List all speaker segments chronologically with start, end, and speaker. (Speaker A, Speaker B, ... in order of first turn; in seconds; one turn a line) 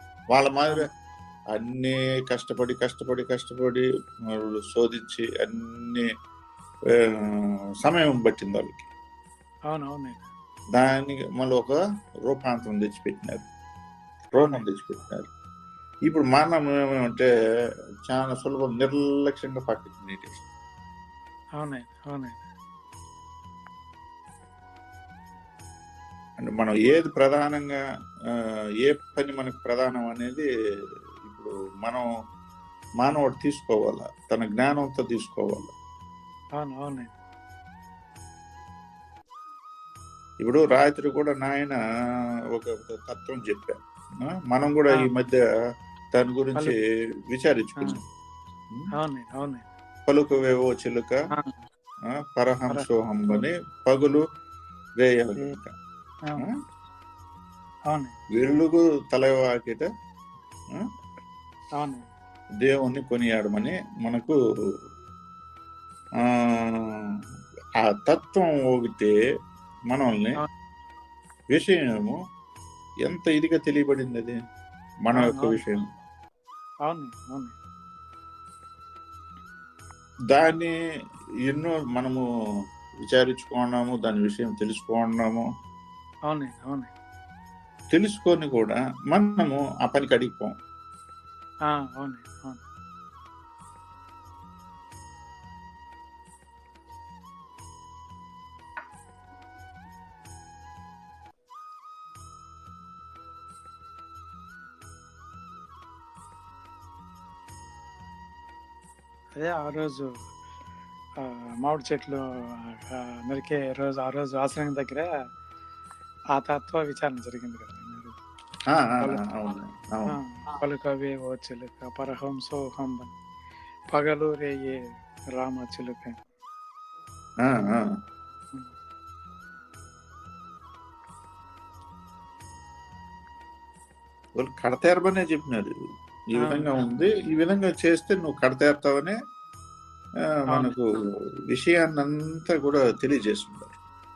Speaker A: 0.3-0.9
Speaker A: 1.5-6.1
Speaker A: 6.9-8.9
Speaker B: 9.7-10.2
Speaker A: 10.7-11.7
Speaker A: 12.3-13.4
Speaker A: 14.3-15.3
Speaker B: 14.4-14.6
Speaker A: 16.1-17.3
Speaker A: 18.1-20.4
Speaker B: 21.6-22.4
Speaker A: 26.4-27.8
Speaker A: 28.4-30.4
Speaker A: 31.2-32.1
Speaker A: 33.0-35.7
Speaker B: 36.6-37.1
Speaker A: 40.4-41.8
Speaker A: 42.5-45.4
Speaker A: 46.1-46.8
Speaker A: 47.3-48.0
Speaker B: 49.0-49.6
Speaker A: 50.1-51.1
Speaker B: 51.3-51.6
Speaker A: 52.2-54.2
Speaker B: 52.7-53.4
Speaker A: 55.0-55.7
Speaker B: 57.9-58.1
Speaker A: 58.3-59.9
Speaker B: 61.8-62.0
Speaker A: 62.6-64.4
Speaker A: 66.2-67.0
Speaker A: 67.8-69.1
Speaker A: 69.9-70.4
Speaker A: 71.5-72.2
Speaker A: 73.0-74.4
Speaker A: 75.0-75.8
Speaker B: 75.1-75.6
Speaker B: 76.9-77.5
Speaker A: 80.3-80.7
Speaker A: 81.5-82.2
Speaker A: 83.1-85.5
Speaker B: 86.3-86.9
Speaker A: 87.9-90.5
Speaker B: 91.7-92.6
Speaker B: 109.3-110.1
Speaker B: 111.2-112.2
Speaker B: 112.7-115.1
Speaker B: 116.3-118.2
Speaker A: 118.7-120.2
Speaker B: 120.1-123.1
Speaker B: 123.9-124.8
Speaker B: 125.4-126.2
Speaker A: 127.4-127.9
Speaker A: 134.4-135.7
Speaker A: 136.3-139.2
Speaker B: 136.4-136.7
Speaker A: 140.5-140.9
Speaker B: 140.5-140.7
Speaker A: 141.5-143.7